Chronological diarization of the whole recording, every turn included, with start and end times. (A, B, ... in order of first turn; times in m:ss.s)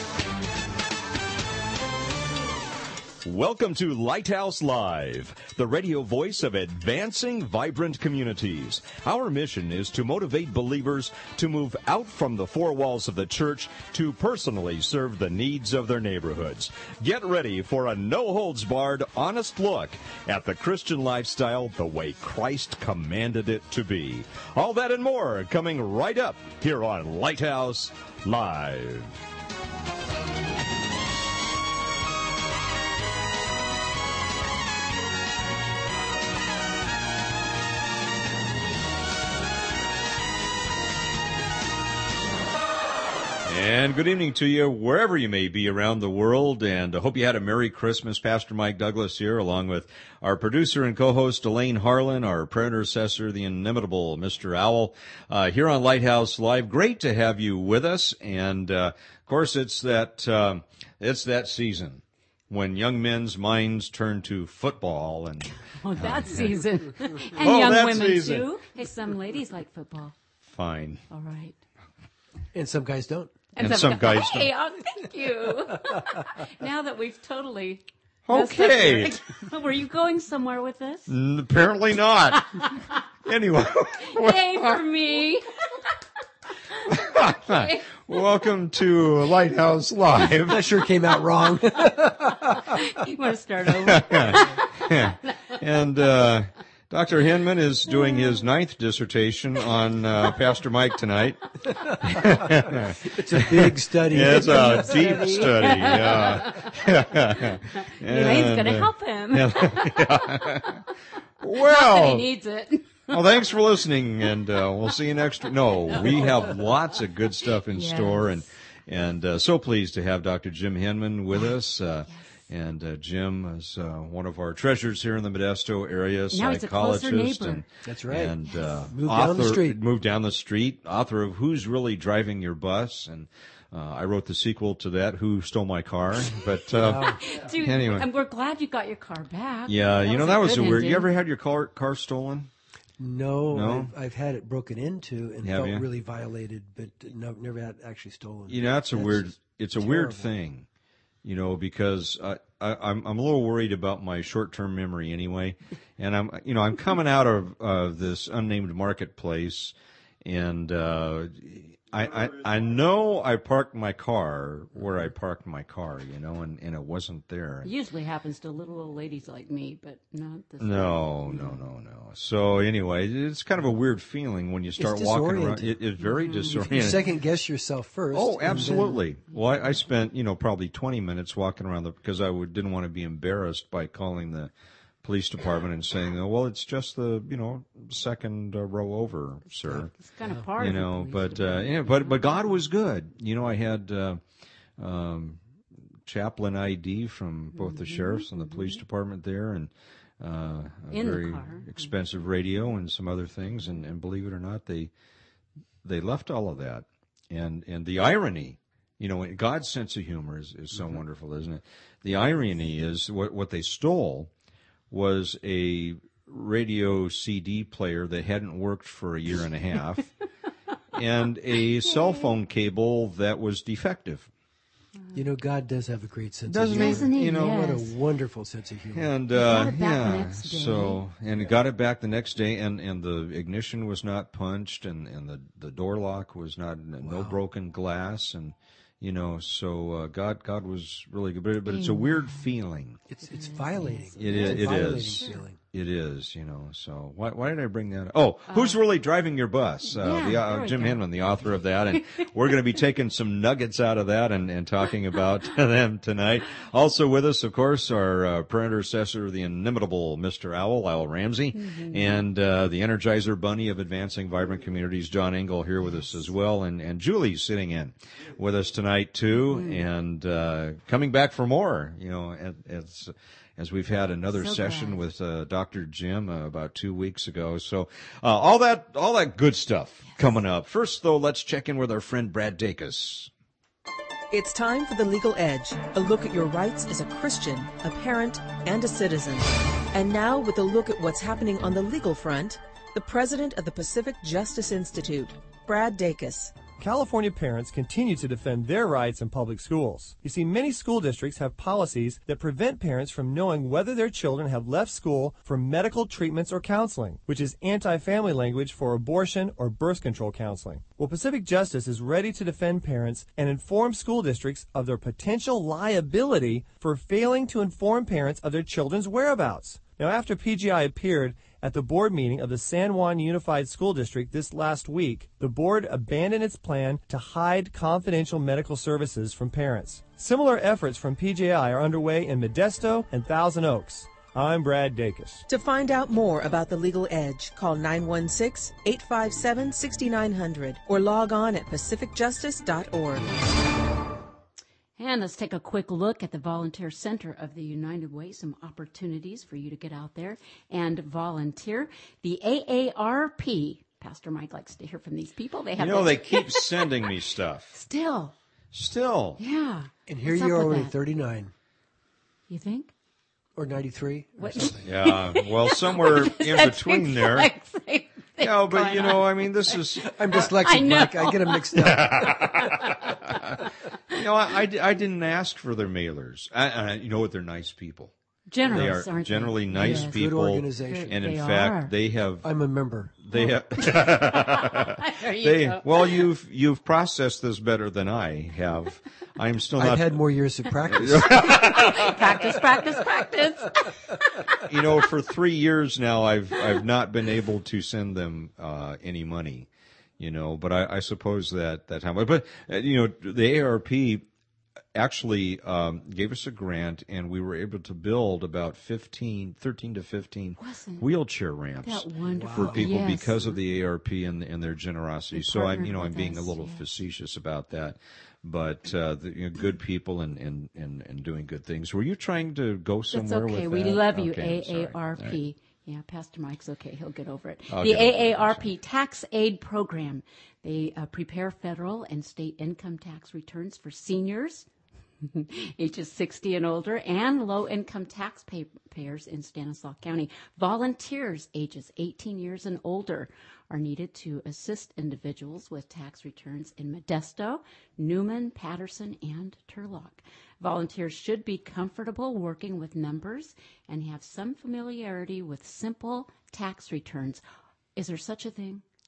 0:03.2-0:29.2 A
0:43.4-1:06.6 A
1:05.6-1:10.2 B
1:07.3-1:08.5 A
1:10.4-1:11.0 A
1:11.1-1:11.6 B
1:12.5-1:13.4 C
1:13.6-1:21.1 B
1:13.6-1:14.5 A
1:18.3-1:19.1 A
1:21.1-1:22.6 A
1:22.4-1:23.0 B
1:23.2-1:24.7 A
1:24.0-1:25.5 B
1:26.7-1:27.9 B
1:26.9-1:30.7 A
1:30.5-1:32.8 C
1:32.5-1:35.6 B
1:33.9-1:50.8 A
1:38.1-1:38.4 B
1:41.9-1:46.0 C
1:44.2-1:50.8 B
1:51.4-1:52.3 A
1:51.4-1:53.1 B
1:53.1-2:18.1 A
1:55.9-1:56.7 B
1:57.4-1:58.4 B
2:06.3-2:07.6 B
2:07.8-2:08.4 C
2:08.5-2:08.8 B
2:08.9-2:09.8 C
2:16.7-2:17.2 C
2:16.9-2:21.1 B
2:19.7-2:22.5 A
2:23.0-2:30.3 C
2:23.5-2:23.9 A
2:25.4-2:25.8 A
2:28.5-2:30.7 A
2:31.2-2:47.7 A
2:47.6-2:51.6 B
2:50.6-2:57.0 A
2:54.8-2:55.8 C
2:56.0-2:56.9 B
2:56.5-2:59.0 C
2:58.1-3:04.5 A
2:58.5-2:59.4 B
3:05.0-3:09.9 A
3:09.7-3:12.3 B
3:10.6-3:14.2 A
3:14.8-3:15.4 A
3:16.1-3:24.9 A
3:17.5-3:18.8 B
3:20.9-3:21.9 B
3:25.8-3:34.3 A
3:34.9-3:40.1 A
3:40.9-3:44.3 A
3:41.8-3:42.3 B
3:45.1-3:49.1 C
3:46.5-3:47.8 A
3:46.7-3:47.9 B
3:48.9-4:03.0 A
3:49.3-3:51.0 B
3:57.0-3:57.4 C
4:01.7-4:02.5 B
4:03.1-4:05.6 C
4:03.2-4:05.4 B
4:04.2-4:43.3 A
4:08.5-4:08.8 B
4:09.9-4:11.0 B
4:11.9-4:12.3 B
4:21.5-4:22.2 B
4:25.8-4:26.2 B
4:29.3-4:29.8 B
4:34.3-4:35.0 B
4:44.3-4:56.6 D
4:56.8-5:35.4 E
5:35.5-5:43.3 D
5:45.0-5:57.1 B
5:55.8-5:57.8 A
5:57.7-5:58.3 B
5:58.7-5:59.4 A
5:59.4-6:01.0 B
6:00.1-6:01.5 C
6:02.5-6:02.9 B
6:03.6-6:04.8 C
6:04.4-6:13.7 B
6:04.8-6:07.5 A
6:08.4-6:10.1 A
6:10.1-6:12.5 C
6:11.8-6:18.1 A
6:18.5-6:21.9 B
6:18.6-6:22.6 A
6:19.8-6:21.1 C
6:22.4-6:23.2 C
6:23.2-6:30.2 A
6:23.3-6:26.2 B
6:29.8-6:32.0 C
6:30.9-6:32.1 A
6:31.4-6:34.6 B
6:34.6-6:44.3 A
6:45.0-7:05.4 A
6:50.6-6:51.1 B
6:51.8-6:53.6 B
6:52.3-6:53.0 C
6:55.3-6:56.9 B
7:03.1-7:14.7 B
7:07.7-7:08.7 A
7:15.2-7:37.4 B
7:38.0-7:38.8 B